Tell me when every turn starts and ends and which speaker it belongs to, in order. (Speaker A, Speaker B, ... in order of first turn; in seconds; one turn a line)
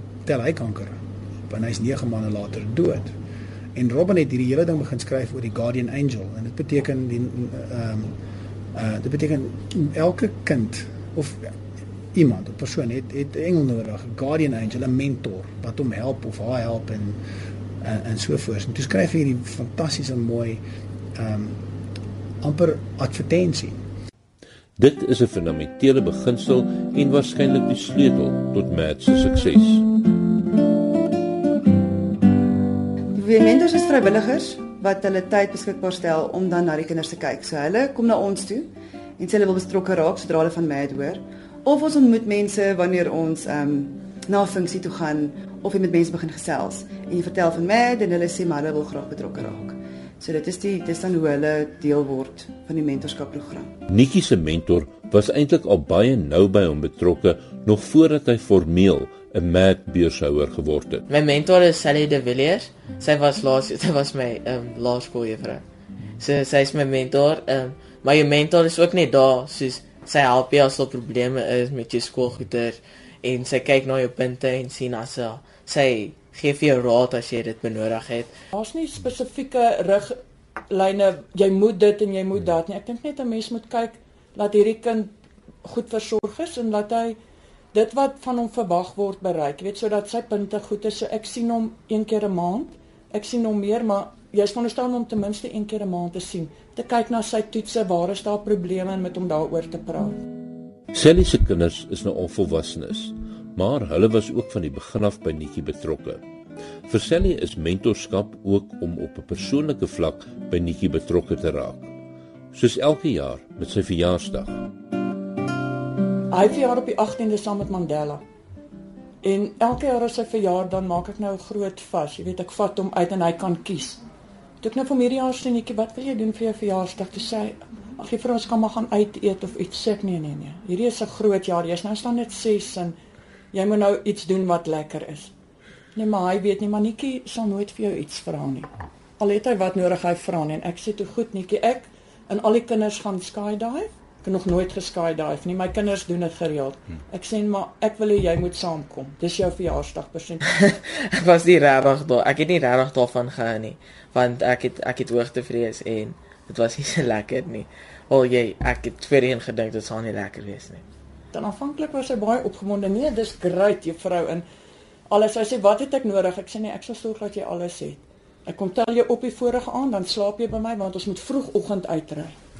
Speaker A: 0.2-3.1
Speaker A: 3.8-8.2
Speaker A: 8.7-11.6
Speaker A: 12.1-17.2
Speaker A: 17.8-20.6
Speaker A: 21.1-21.6
Speaker A: 22.4-23.8
Speaker B: 24.8-29.9
Speaker C: 33.1-53.8
Speaker B: 53.9-61.0
Speaker D: 61.1-65.6
Speaker D: 66.2-78.3
Speaker E: 78.5-80.2
Speaker E: 80.7-85.1
Speaker E: 85.6-87.2
Speaker E: 87.7-100.2
Speaker B: 100.9-106.2
Speaker B: 106.9-111.9
Speaker B: 112.5-114.6
Speaker E: 116.3-118.2
Speaker E: 119.2-124.0
Speaker E: 124.6-133.0
Speaker E: 133.5-135.3
Speaker E: 135.9-150.4
Speaker D: 150.5-160.8
Speaker E: 161.3-164.4
Speaker E: 165.1-172.4